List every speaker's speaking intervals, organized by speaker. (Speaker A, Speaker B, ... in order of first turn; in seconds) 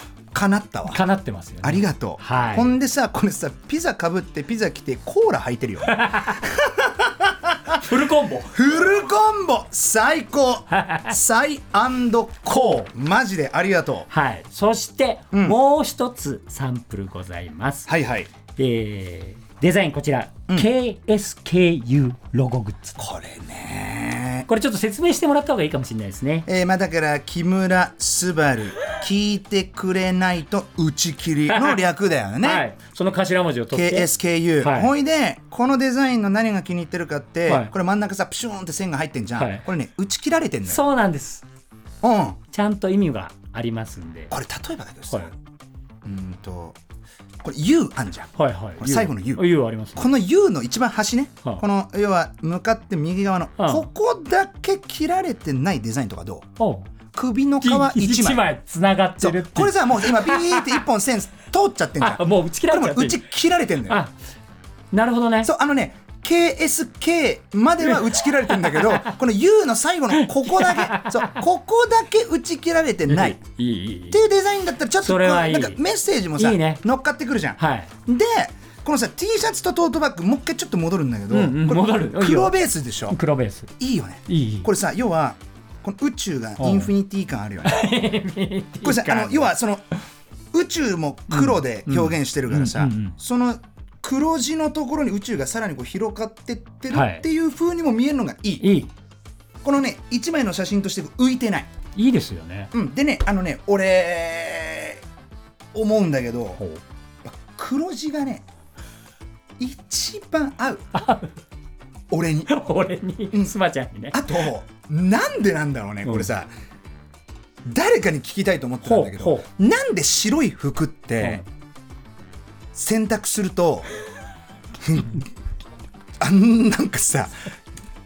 Speaker A: 0.3-1.0, 1.6-7.8, 8.5-14.1, 15.3-15.6, 17.9-18.3, 23.0-24.5, 26.5-32.6, 33.7-40.8, 42.0-42.4, 44.3-45.3, 46.0-46.8, 47.4-49.4, 50.0-56.5, 57.1-58.4, 59.2-64.0, 65.4-73.4, 74.1-83.2, 83.8-88.0, 88.8-89.8, 90.5-98.7, 99.6-101.7, 102.7-105.0, 105.7-106.6, 107.2-108.4, 109.6-110.9, 112.1-112.5, 114.1-116.5, 117.7-121.4, 122.7-123.9, 124.8-125.3, 126.2-127.4
Speaker B: 0.9-2.7, 5.9-6.4, 7.8-8.8, 10.7-11.2, 12.5-12.9, 14.1-17.9, 18.6-22.9, 24.5-26.5, 31.5-31.8, 32.4-34.1, 34.6-34.9, 37.5-37.7, 39.4-39.6, 40.7-41.4, 42.5-44.3, 48.4-50.1, 53.6-53.9, 56.6-56.9, 57.6-60.8, 62.0-63.2, 63.9-64.1, 64.9-65.5, 67.9-69.1, 70.2-71.3, 73.1-74.2, 75.0-75.8, 76.3-76.8, 77.6-77.9, 81.3-82.6, 83.1-83.7, 84.2-84.7, 86.6-86.9, 87.6-89.5, 91.3-93.2, 96.9-97.2, 98.6-98.9, 101.9-102.7, 111.0-111.3, 112.5-114.2, 118.8-119.5